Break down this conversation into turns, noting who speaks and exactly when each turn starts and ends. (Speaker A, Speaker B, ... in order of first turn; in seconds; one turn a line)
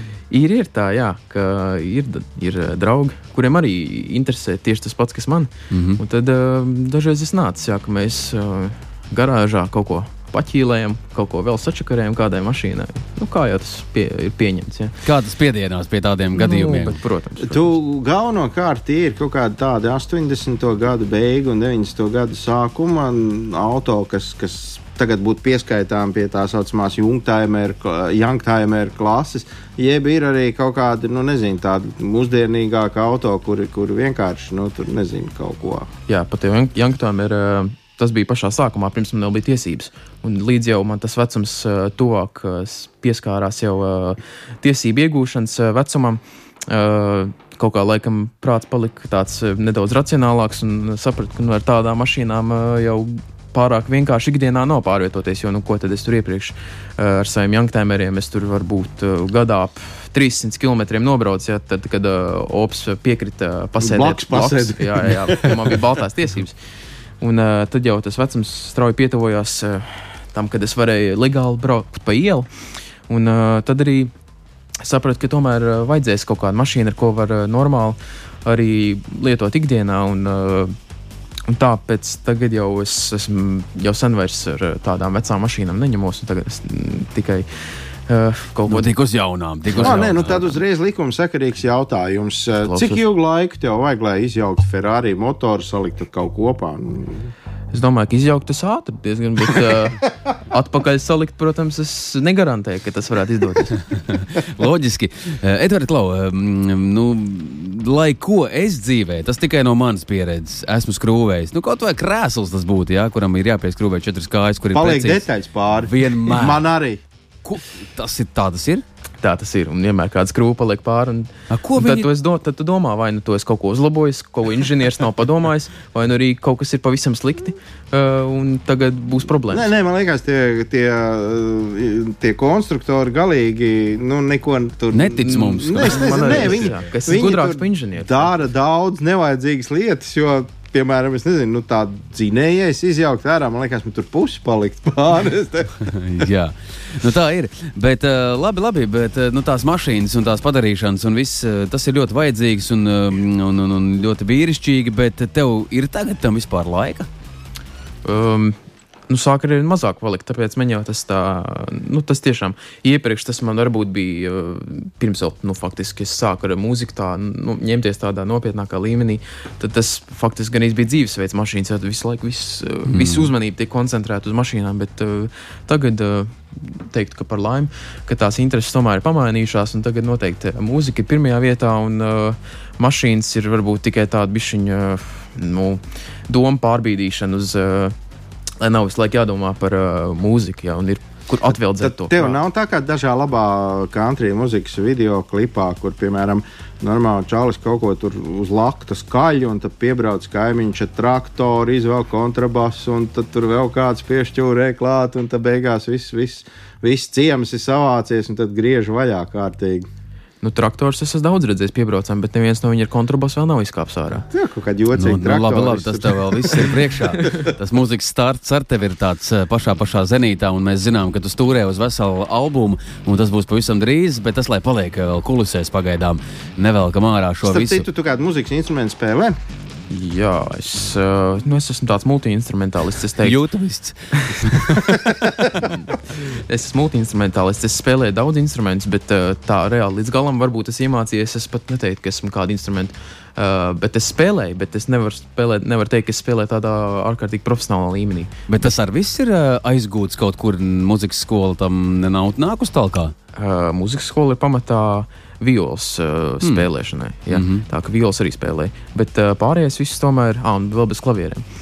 Speaker A: 0.3-15.0
Speaker B: 5.7-6.0
Speaker B: 15.0-17.0
Speaker A: 16.3-17.7
Speaker C: 17.4-35.9
Speaker A: 36.1-66.6
Speaker C: 63.8-65.8
Speaker A: 67.2-72.5
Speaker A: 73.1-74.1
Speaker A: 74.8-80.7
Speaker A: 81.5-88.9
Speaker B: 88.7-90.5
Speaker A: 89.7-90.1
Speaker C: 89.8-97.3
Speaker A: 92.6-93.0
Speaker A: 97.7-103.8
Speaker B: 103.9-115.2
Speaker C: 114.7-117.0
Speaker B: 115.9-116.7
Speaker B: 117.4-118.8
Speaker A: 119.2-129.7
Speaker B: 121.5-122.1
Speaker C: 129.5-145.9
Speaker B: 134.9-136.9
Speaker A: 135.8-138.3
Speaker B: 145.8-157.1
Speaker A: 158.1-158.6
Speaker A: 159.1-187.9
Speaker B: 172.9-173.3
Speaker A: 188.6-192.4
Speaker C: 191.8-209.9
Speaker A: 210.4-214.3
Speaker C: 214.3-216.7
Speaker B: 215.0-227.9
Speaker C: 227.4-229.4
Speaker A: 229.9-233.4
Speaker B: 233.2-235.0
Speaker A: 234.3-248.7
Speaker B: 248.5-253.1
Speaker A: 253.3-261.4
Speaker B: 257.3-257.6